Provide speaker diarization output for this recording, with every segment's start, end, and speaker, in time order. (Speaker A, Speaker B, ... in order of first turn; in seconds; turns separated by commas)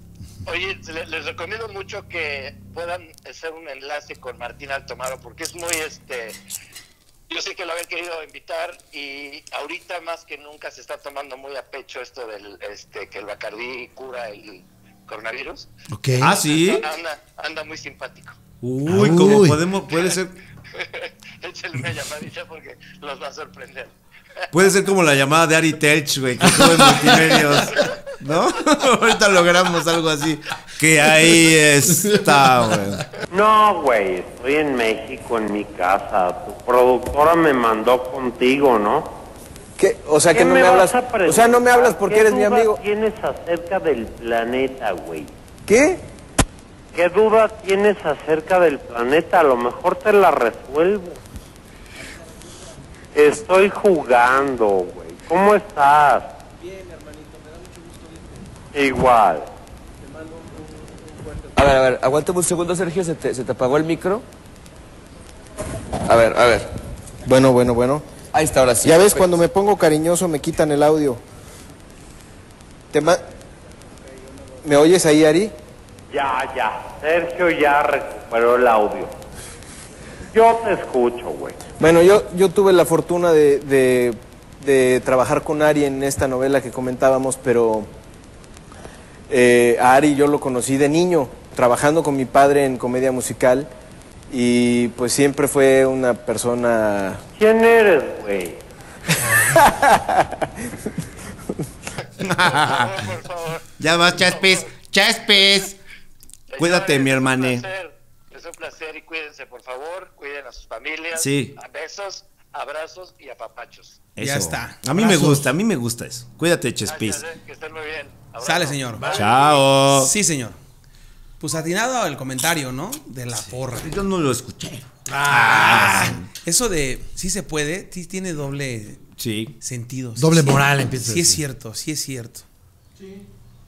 Speaker A: 0.5-6.4, Speaker A: 7.3-15.7, Speaker B: 15.9-16.4, Speaker C: 16.2-16.9, Speaker A: 16.2-18.4, Speaker C: 18.6-20.4, Speaker B: 18.9-19.6, Speaker A: 20.7-23.9, Speaker C: 24.5-33.1, Speaker B: 26.4-27.6, Speaker A: 27.7-28.0, Speaker B: 32.0-32.8, Speaker D: 33.3-39.1, Speaker E: 39.8-42.8, Speaker D: 40.3-45.3, Speaker E: 45.7-46.0, Speaker D: 46.9-51.2, Speaker D: 53.1-56.3, Speaker D: 58.7-59.5, Speaker F: 61.5-64.2, Speaker F: 66.1-66.7, Speaker E: 67.3-68.0, Speaker F: 68.3-69.2, Speaker E: 68.8-71.2, Speaker E: 72.9-73.2, Speaker E: 74.6-75.5, Speaker D: 76.1-79.2, Speaker D: 80.3-81.6, Speaker E: 81.8-87.9, Speaker E: 89.3-93.7, Speaker E: 94.3-97.2, Speaker D: 97.4-98.6, Speaker E: 99.2-100.2, Speaker C: 102.2-103.0, Speaker A: 102.2-104.7, Speaker C: 103.8-105.8, Speaker A: 106.5-114.0, Speaker C: 106.6-107.7, Speaker C: 111.2-111.5, Speaker C: 114.2-117.2, Speaker G: 114.2-115.4, Speaker A: 116.9-119.7, Speaker G: 118.4-119.1, Speaker C: 119.0-120.1, Speaker G: 119.9-120.6, Speaker G: 121.4-124.0, Speaker C: 123.7-126.2, Speaker B: 125.1-126.2, Speaker G: 125.4-129.0, Speaker C: 129.2-129.6, Speaker G: 129.6-132.4, Speaker B: 130.2-131.4